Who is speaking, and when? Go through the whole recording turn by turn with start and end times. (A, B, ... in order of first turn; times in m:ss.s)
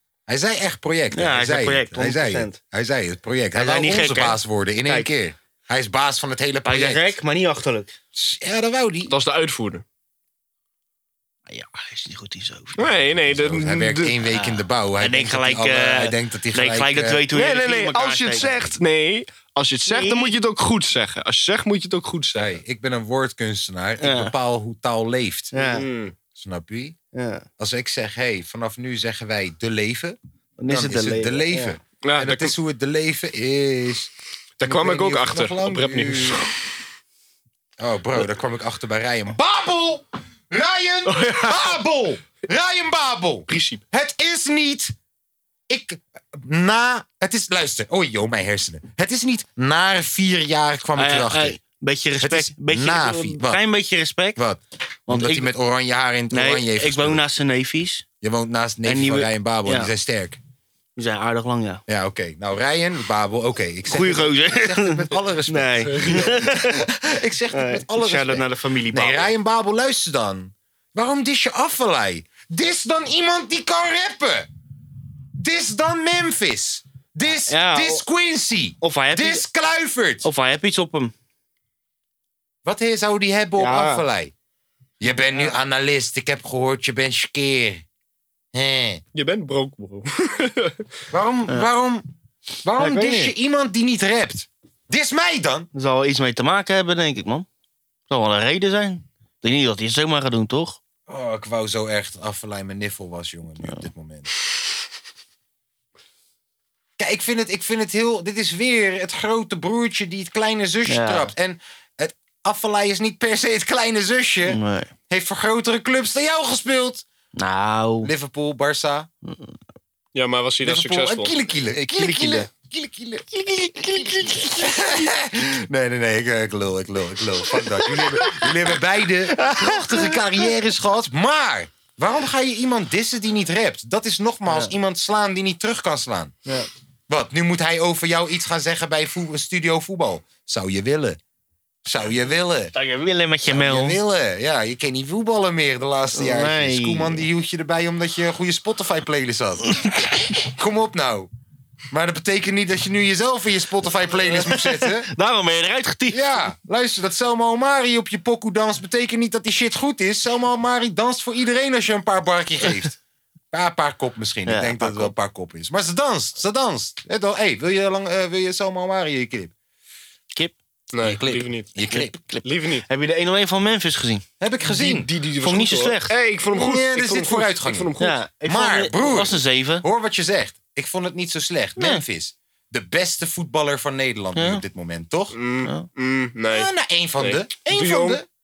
0:00.3-0:07.2 A
0:01.1-0:02.6 B
0:03.5-0:05.1 B
0:06.6-0:07.9 B
0:08.1-0:09.1 A
0:09.1-0:09.8 C
0:11.5-0:13.0 B
0:12.8-0:14.1 C
0:13.2-0:17.2 A
0:14.2-0:18.7 B
0:17.3-0:22.6 C
0:19.9-0:20.3 B
0:22.3-0:25.5 A
0:24.0-0:24.3 B
0:25.5-0:25.9 B
0:25.5-0:26.1 C
0:26.3-0:27.0 A
0:27.1-0:27.5 B
0:27.6-0:30.2 A
0:30.6-0:31.8 B
0:30.7-0:34.1 A
0:32.0-0:32.5 C
0:34.6-0:36.6 C
0:34.6-0:36.4 A
0:37.8-0:44.9 A
0:41.0-0:41.8 C
0:43.5-0:43.8 C
0:45.7-0:51.6 A
0:51.0-0:54.4 B
0:52.2-0:53.6 A
0:54.4-0:57.2 A
0:55.1-0:55.5 B
0:56.3-0:58.0 B
0:58.2-1:00.4 A
0:58.8-0:59.9 B
1:01.0-1:01.8 B
1:01.9-1:14.5 A
1:03.9-1:06.8 B
1:05.9-1:06.3 C
1:07.5-1:09.3 B
1:15.4-1:20.2 A
1:17.3-1:18.0 B
1:18.8-1:19.4 B
1:20.2-1:21.1 B
1:22.6-1:24.3 A
1:23.6-1:24.0 B
1:25.0-1:27.8 A
1:28.5-1:29.0 A
1:29.1-1:30.8 C
1:31.1-1:32.1 A
1:32.6-1:35.7 A
1:32.8-1:33.3 B
1:35.7-1:37.5 B
1:38.1-1:40.8 B
1:41.1-1:44.3 A
1:47.0-1:57.0 A
1:50.9-1:51.3 B
1:54.4-1:54.9 B
1:57.4-1:58.1 B
1:58.0-1:59.1 A
1:59.3-1:59.5 B
2:00.1-2:01.4 C
2:00.6-2:16.3 A
2:01.9-2:02.5 B
2:03.7-2:04.8 B
2:07.9-2:08.4 B
2:09.4-2:10.2 B
2:17.1-2:21.2 A
2:21.8-2:22.7 A
2:22.7-2:24.0 B
2:23.5-2:29.8 A
2:26.1-2:27.2 B
2:30.4-2:31.3 A
2:31.9-2:35.1 A
2:34.3-2:36.4 B
2:36.1-2:43.0 A
2:43.5-2:49.5 A
2:44.5-2:45.1 B
2:50.9-2:51.7 C
2:51.0-2:52.2 A
2:51.9-2:54.2 B
2:52.4-2:52.8 C
2:54.4-2:55.1 A
2:54.6-2:58.2 C
2:55.4-2:56.1 B
2:56.5-2:57.9 A
2:58.0-2:59.8 B
2:58.4-3:05.4 A
3:01.8-3:02.0 B
3:04.3-3:04.6 B
3:05.3-3:08.2 C
3:06.5-3:08.2 A